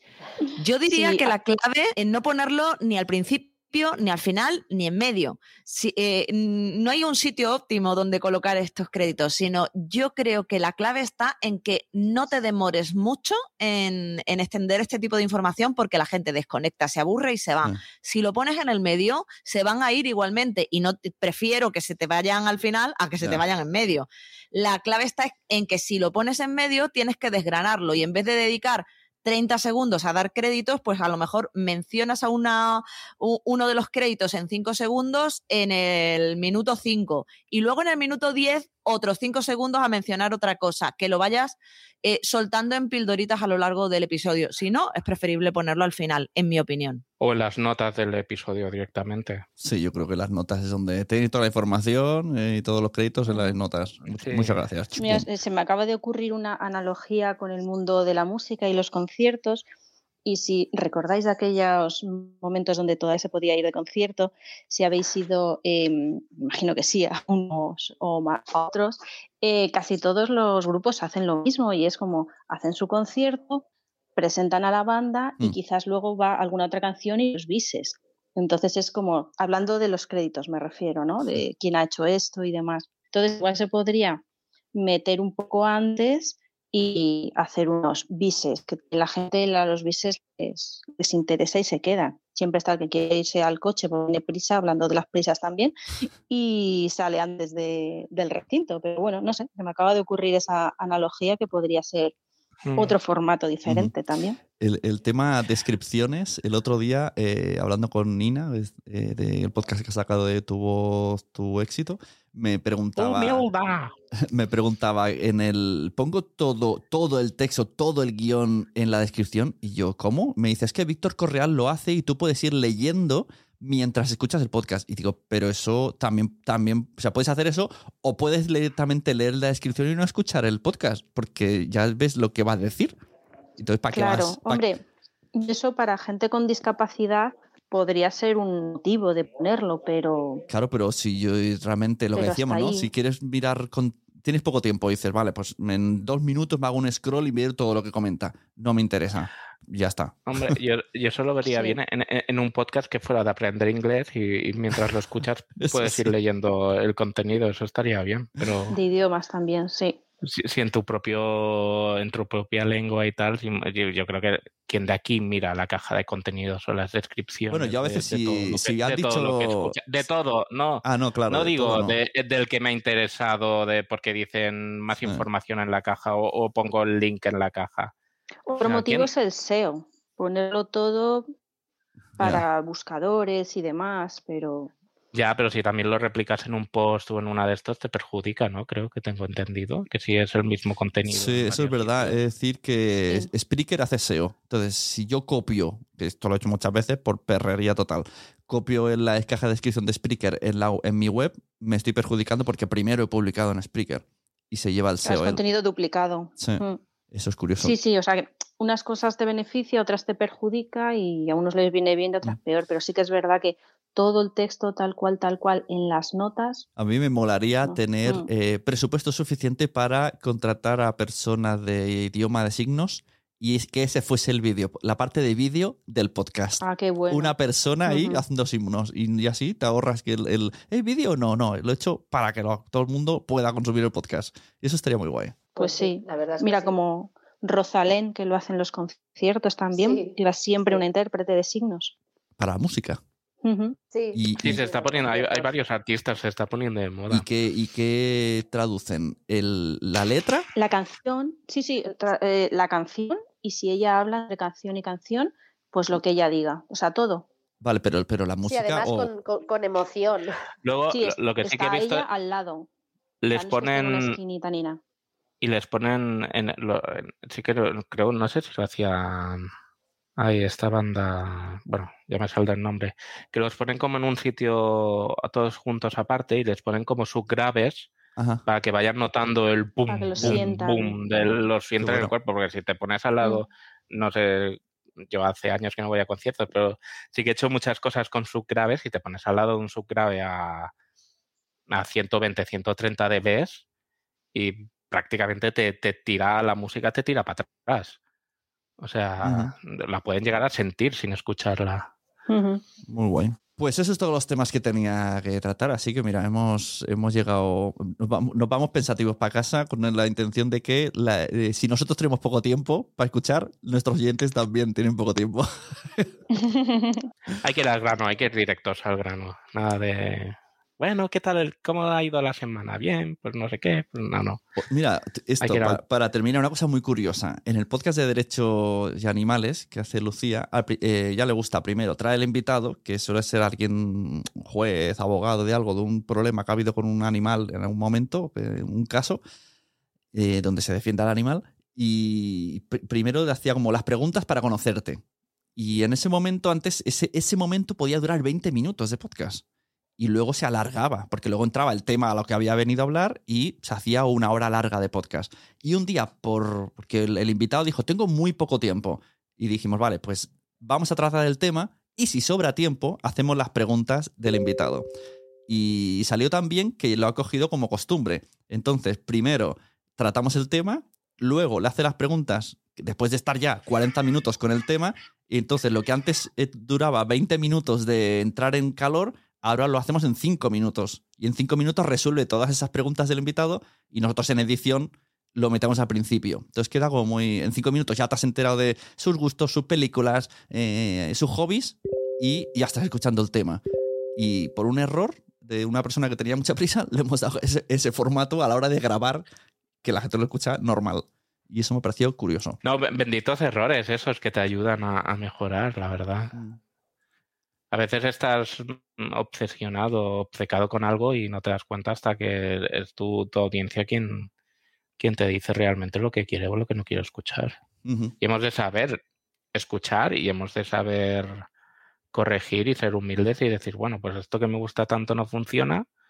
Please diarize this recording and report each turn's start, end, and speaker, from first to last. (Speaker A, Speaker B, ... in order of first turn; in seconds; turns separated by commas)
Speaker A: 0.6-47.0, Speaker B: 0.9-1.3, Speaker C: 47.2-49.5, Speaker D: 49.6-55.3, Speaker C: 54.1-54.5, Speaker B: 55.0-59.7, Speaker B: 60.2-73.6, Speaker B: 74.2-84.2, Speaker B: 84.7-95.7, Speaker B: 96.3-102.1, Speaker C: 102.7-103.0, Speaker B: 102.8-104.4, Speaker D: 103.7-103.9, Speaker D: 104.6-113.5, Speaker C: 113.0-113.9, Speaker D: 114.2-132.9, Speaker D: 133.6-134.7, Speaker B: 133.9-134.8, Speaker B: 135.3-140.4, Speaker D: 140.5-150.6, Speaker B: 142.2-142.9, Speaker C: 150.3-158.7, Speaker B: 151.4-151.8, Speaker D: 155.6-156.1, Speaker B: 158.7-160.0, Speaker C: 160.2-177.9, Speaker D: 167.5-169.7, Speaker D: 170.8-171.9, Speaker D: 175.0-175.3, Speaker B: 178.5-181.3, Speaker C: 178.6-179.1, Speaker B: 182.2-184.7, Speaker D: 182.2-182.4, Speaker C: 185.1-192.1, Speaker D: 191.1-205.4, Speaker B: 205.1-206.8, Speaker D: 206.4-207.7, Speaker B: 207.6-216.7, Speaker D: 216.8-235.4, Speaker B: 217.6-218.3, Speaker B: 226.6-227.3, Speaker B: 227.9-228.1, Speaker E: 235.6-236.7, Speaker B: 235.6-241.9, Speaker E: 239.7-240.8, Speaker D: 242.4-243.0, Speaker B: 243.4-243.8, Speaker E: 243.9-245.5, Speaker D: 244.1-244.7, Speaker C: 244.4-247.2, Speaker D: 247.1-250.4, Speaker B: 250.6-257.3, Speaker D: 257.6-259.1, Speaker E: 258.4-260.3, Speaker C: 260.6-262.1, Speaker B: 260.9-262.7, Speaker C: 263.2-264.2, Speaker B: 263.3-264.8, Speaker C: 265.4-269.5, Speaker C: 270.2-277.9, Speaker D: 278.2-278.4, Speaker C: 278.4-290.7, Speaker B: 279.9-281.0, Speaker D: 281.8-282.1, Speaker C: 291.7-293.6, Speaker C: 294.3-298.0, Speaker C: 298.8-301.9, Speaker D: 299.2-299.5, Speaker B: 302.3-302.6, Speaker D: 302.9-316.1, Speaker B: 316.3-317.1, Speaker C: 317.4-324.4, Speaker D: 324.6-339.2, Speaker C: 325.4-325.8, Speaker D: 340.1-345.0, Speaker D: 345.6-349.4, Speaker D: 350.0-364.9, Speaker D: 365.5-393.6, Speaker D: 394.2-399.2, Speaker D: 399.8-402.6, Speaker C: 402.6-406.3, Speaker D: 406.3-406.6, Speaker C: 407.7-414.3, Speaker C: 415.0-417.6, Speaker D: 417.8-418.1, Speaker C: 418.2-419.0, Speaker C: 419.6-421.4, Speaker C: 422.1-425.8